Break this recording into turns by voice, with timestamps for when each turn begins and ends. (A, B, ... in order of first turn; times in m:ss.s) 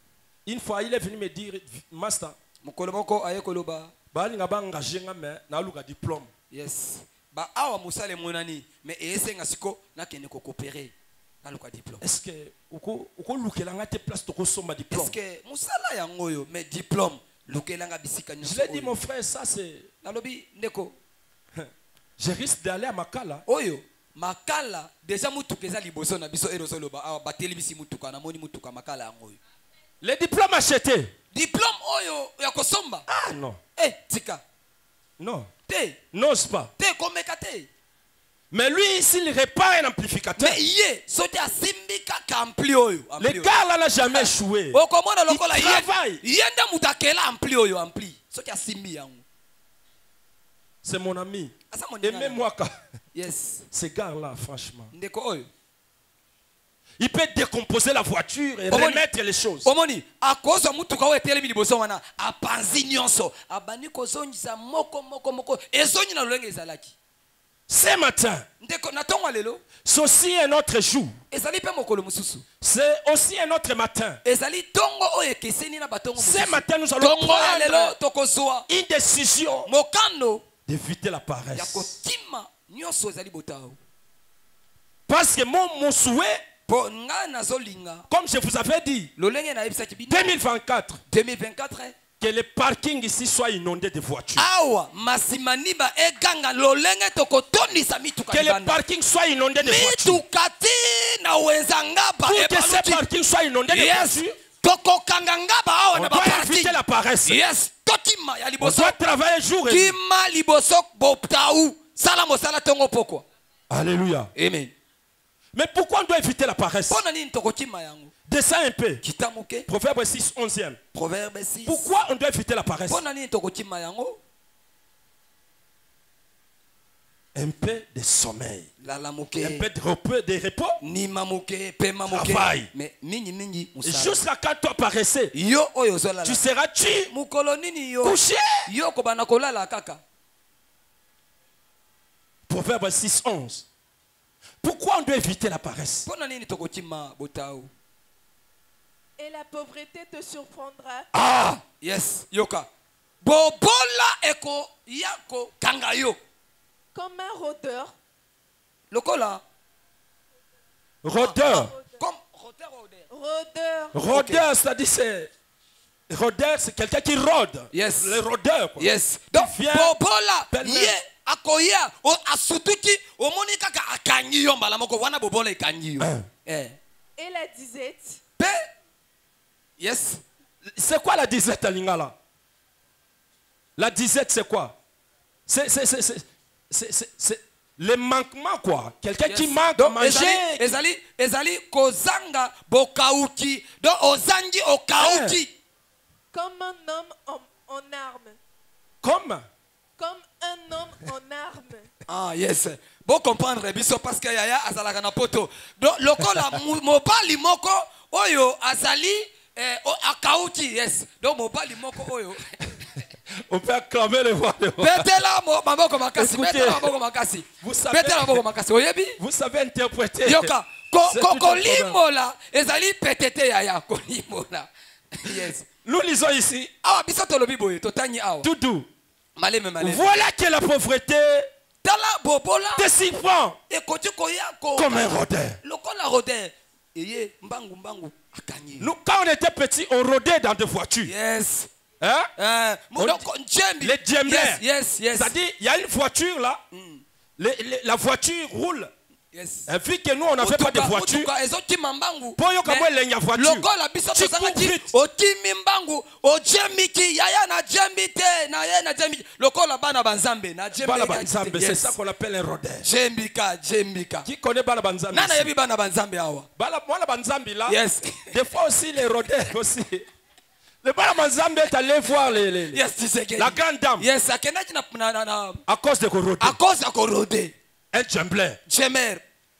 0:00.4-0:02.4 A
0:02.6-0:03.9 B
0:04.1-0:06.3 A
0:06.5-0:12.0 B
0:12.0-0:15.1 A
0:14.9-0:19.0 B
0:18.4-0:19.9 A
0:20.0-0:21.0 B
0:21.6-0:23.4 A
0:23.5-0:29.4 B
0:30.0-0:31.1 A
0:31.3-0:34.4 B
0:33.1-0:33.6 A
0:35.2-0:35.5 A
0:35.7-0:36.0 B
0:36.1-0:36.7 A
0:36.8-0:37.7 B
0:38.5-0:40.6 A
0:40.4-0:49.2 B
0:43.2-0:46.2 A
0:50.8-0:52.8 A
0:51.7-0:52.4 B
0:53.1-0:53.7 B
0:53.7-0:54.9 A
0:54.9-0:55.5 B
0:57.0-0:59.7 A
0:58.7-0:59.0 B
0:59.6-1:06.9 B
1:07.7-1:08.4 A
1:08.6-1:09.6 B
1:09.8-1:11.2 A
1:11.3-1:12.4 B
1:12.6-1:14.2 A
1:14.2-1:18.7 B
1:16.2-1:17.9 A
1:18.7-1:19.7 A
1:19.6-1:20.4 B
1:20.7-1:21.9 A
1:21.5-1:23.8 B
1:25.1-1:26.4 A
1:26.7-1:28.1 B
1:28.1-1:29.1 A
1:29.2-1:30.4 B
1:30.1-1:31.0 A
1:31.1-1:32.0 B
1:32.2-1:34.4 A
1:34.4-1:38.8 B
1:38.3-1:40.2 A
1:39.6-1:43.0 B
1:42.2-1:44.4 A
1:43.7-1:49.0 B
1:45.9-1:47.4 A
1:48.6-1:50.0 A
1:49.7-1:53.2 B
1:53.7-1:54.3 A
1:54.3-1:54.7 B
1:55.5-1:57.0 A
1:56.9-1:58.1 B
1:58.3-1:59.0 A
1:59.0-1:59.7 B
1:59.7-2:00.8 A
2:00.9-2:01.9 B
2:01.6-2:03.0 A
2:02.9-2:04.2 B
2:07.3-2:08.7 A
2:08.8-2:09.6 B
2:09.4-2:10.8 A
2:10.8-2:14.2 B
2:12.1-2:12.7 A
2:13.8-2:15.3 A
2:15.3-2:16.4 B
2:16.2-2:17.1 A
2:17.1-2:20.0 B
2:18.0-2:18.7 A
2:22.5-2:23.6 A
2:24.6-2:26.1 A
2:26.0-2:27.7 B
2:29.2-2:31.1 C
2:31.1-2:31.6 A
2:31.7-2:32.7 B
2:33.2-2:36.2 B
2:36.9-2:37.9 C
2:38.9-2:39.4 B
2:41.0-2:41.7 A
2:41.2-2:43.1 B
2:41.4-2:41.8 C
2:43.1-2:44.0 C
2:43.9-2:45.3 A
2:44.1-2:44.4 B
2:46.1-2:49.9 A
2:47.7-2:48.2 B
2:48.8-2:56.8 B
2:50.5-2:51.0 A
2:56.0-2:56.2 A
2:57.2-2:58.2 C
2:58.4-2:58.7 B
2:59.8-3:00.2 B
3:00.7-3:02.1 A
3:03.8-3:04.8 A
3:05.5-3:10.8 A
3:09.2-3:15.5 B
3:15.0-3:15.4 A
3:16.3-3:18.4 C
3:19.0-3:19.4 A
3:20.0-3:21.9 C
3:22.1-3:32.7 B
3:33.3-3:35.1 A
3:34.8-3:39.2 B
3:36.1-3:36.9 A
3:37.6-3:38.4 A
3:39.2-3:40.5 A
3:40.2-3:45.7 B
3:41.0-3:42.0 A
3:45.3-3:46.7 A
3:46.8-3:48.5 B
3:48.4-3:48.9 A
3:49.4-3:50.2 B
3:49.8-3:51.5 A
3:51.8-3:52.9 B
3:52.8-3:53.6 A
3:53.7-3:58.9 B
3:54.8-3:55.6 A
3:58.8-4:01.1 A
4:01.0-4:01.7 B
4:02.0-4:02.3 A
4:02.4-4:05.3 B
4:03.0-4:03.2 A
4:03.8-4:06.6 A
4:06.7-4:07.0 B
4:07.4-4:08.9 A
4:09.3-4:09.7 B
4:09.7-4:11.3 A
4:10.4-4:21.9 B
4:12.4-4:14.9 A
4:20.7-4:22.9 A
4:22.8-4:24.3 B
4:24.2-4:25.5 A
4:25.1-4:26.5 B
4:26.6-4:27.8 A
4:27.7-4:28.4 B
4:28.3-4:30.1 A
4:30.8-4:32.8 A
4:32.7-4:35.6 B
4:33.4-4:34.1 A
4:35.7-4:36.6 A
4:36.4-4:37.5 B
4:37.9-4:38.6 A
4:38.7-4:39.2 B